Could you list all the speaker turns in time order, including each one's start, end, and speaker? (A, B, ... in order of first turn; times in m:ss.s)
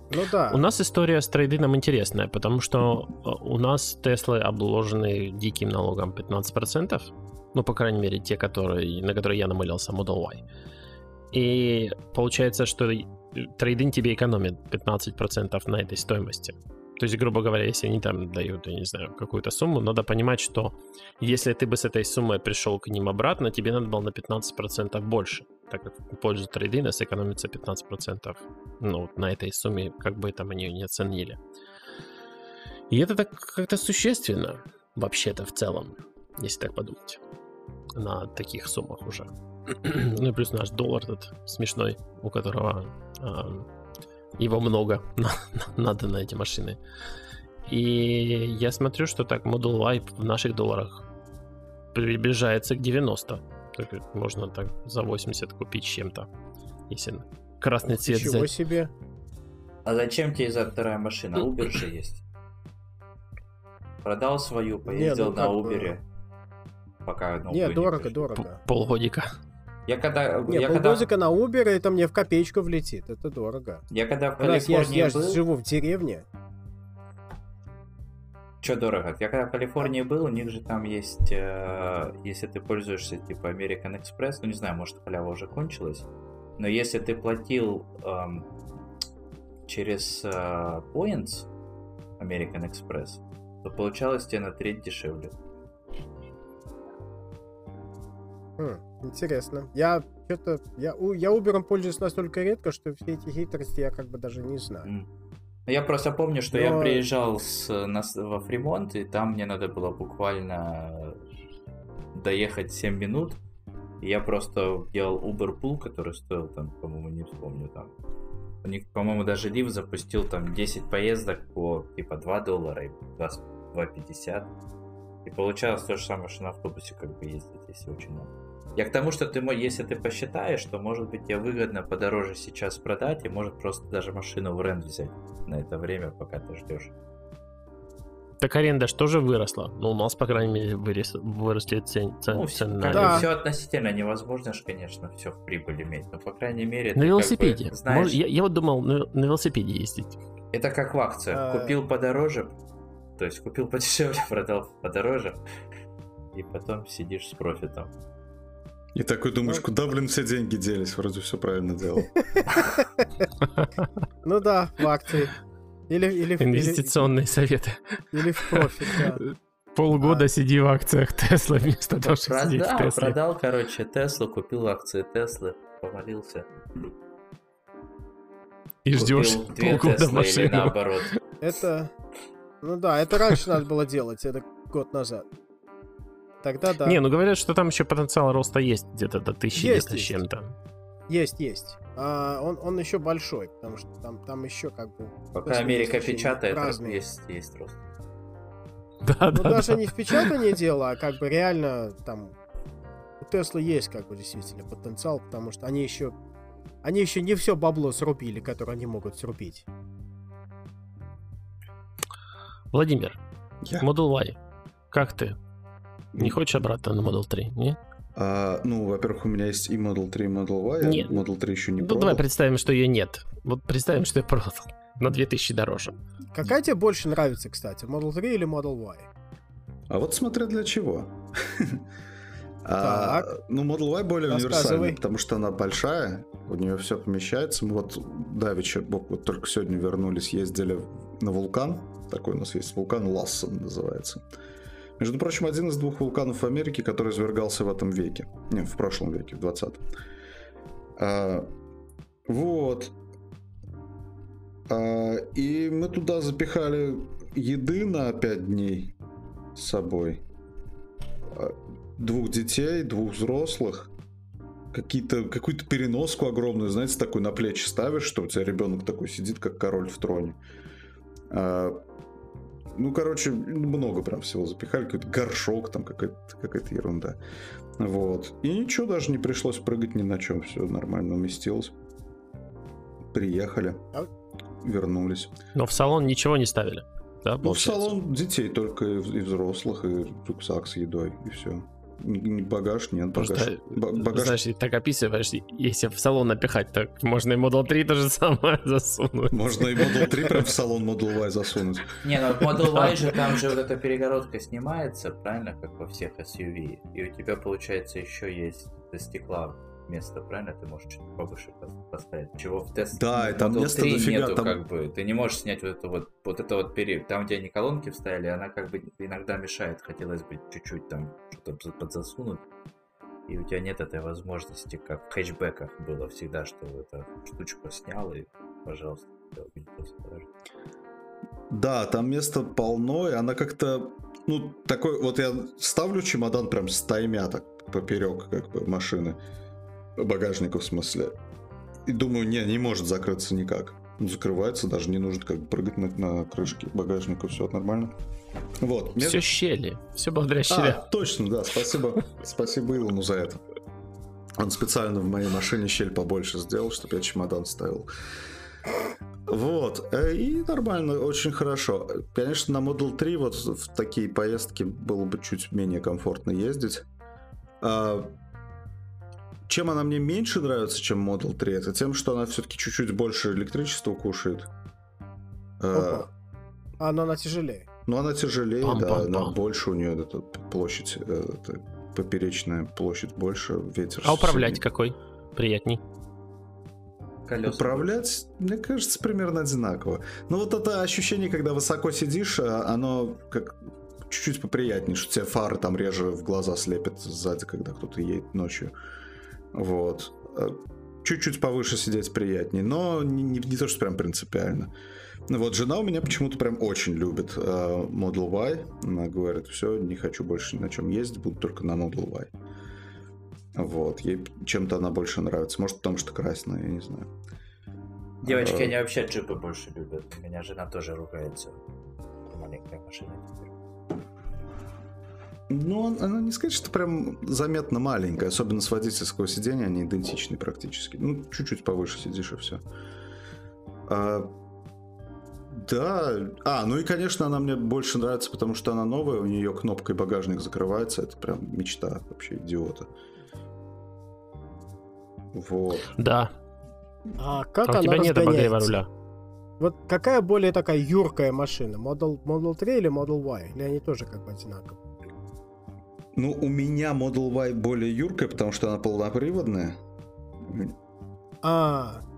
0:00.1-0:00.6 A
0:00.5-0:10.4 B
0:11.3-0:31.4 B
0:32.9-0:37.2 B
0:37.9-0:43.7 B
0:44.4-0:46.8 B
0:47.7-0:51.0 B
0:51.9-0:56.3 B
0:56.9-0:58.5 B
0:58.0-0:58.9 A
0:59.8-1:02.2 C
1:04.0-1:06.0 C
1:04.9-1:06.0 A
1:07.0-1:08.4 C
1:07.5-1:08.6 A
1:08.6-1:09.3 B
1:09.9-1:11.1 C
1:10.5-1:13.8 A
1:13.9-1:15.4 C
1:14.4-1:16.2 A
1:18.6-1:26.1 C
1:26.6-1:28.5 C
1:29.7-1:31.5 C
1:32.2-1:35.3 C
1:38.6-1:44.9 A
1:45.7-1:51.2 C
1:46.5-1:47.0 A
1:52.1-1:53.4 C
1:54.0-1:57.9 C
1:58.6-2:04.5 C
2:05.2-2:16.9 C
2:18.4-2:23.3 B
2:22.3-2:28.2 C
2:22.9-2:23.2 A
2:27.0-2:30.2 B
2:30.5-2:32.5 C
2:31.3-2:31.7 A
2:33.2-2:35.4 C
2:36.3-2:37.9 C
2:38.9-2:42.1 D
2:44.2-2:45.3 A
2:45.9-2:47.1 A
2:46.4-2:53.2 B
2:48.1-2:49.2 A
2:49.9-2:50.2 A
2:52.0-2:56.5 C
2:58.8-3:01.2 B
2:58.9-3:01.1 C
3:01.4-3:01.9 A
3:02.6-3:05.3 A
3:06.4-3:07.0 A
3:06.8-3:10.5 B
3:09.5-3:10.2 A
3:11.1-3:17.0 A
3:15.3-3:17.8 C
3:19.0-3:20.3 B
3:19.3-3:22.3 A
3:23.2-3:26.1 A
3:26.8-3:29.7 A
3:32.7-3:33.2 B
3:33.6-3:33.9 D
3:33.8-3:34.4 B
3:34.9-3:35.4 B
3:36.1-3:36.4 D
3:36.2-3:37.8 B
3:38.2-3:42.2 D
3:40.8-3:41.2 B
3:41.8-3:46.0 B
3:46.3-3:49.1 A
3:49.9-3:51.8 D
3:52.6-4:04.2 D
3:52.8-3:53.3 A
3:54.3-3:55.0 A
4:05.0-4:09.8 D
4:11.0-4:11.5 D
4:12.3-4:12.9 D
4:14.7-4:18.9 D
4:19.5-4:20.2 D
4:21.3-4:23.9 D
4:24.7-4:30.4 D
4:31.3-4:31.8 D
4:32.7-4:37.2 D
4:37.8-4:41.7 D
4:43.1-4:43.9 D
4:44.6-4:45.3 D
4:45.5-4:47.9 B
4:47.4-4:54.4 D
4:53.2-5:00.1 B
4:59.3-5:02.0 D
5:02.0-5:22.4 C
5:12.9-5:14.6 D
5:23.3-5:30.3 C
5:31.5-5:39.2 D
5:40.0-5:41.1 D
5:41.8-5:47.9 D
5:48.6-5:49.3 D
5:49.0-5:50.8 B
5:50.5-5:53.4 D
5:54.4-5:57.9 D
5:59.3-6:06.8 D
6:07.6-6:08.1 D
6:09.5-6:14.5 D
6:15.6-6:16.1 D
6:15.7-6:16.1 A
6:16.8-6:17.7 A
6:17.9-6:24.6 D
6:18.6-6:19.3 B
6:24.0-6:25.8 B
6:27.2-6:28.0 C
6:27.4-6:38.7 D
6:39.5-6:44.7 D
6:45.3-6:52.3 D
6:53.5-6:57.1 D
6:58.2-6:58.7 D
6:58.2-7:01.6 C
7:02.2-7:03.5 C
7:05.5-7:12.6 D
7:13.9-7:14.3 D
7:15.5-7:22.9 D
7:25.3-7:26.0 D
7:26.0-7:26.3 B
7:27.2-7:28.7 A
7:27.6-7:28.9 B
7:29.6-7:34.8 A
7:36.1-7:39.8 D
7:40.4-7:40.7 D
7:41.4-7:42.0 A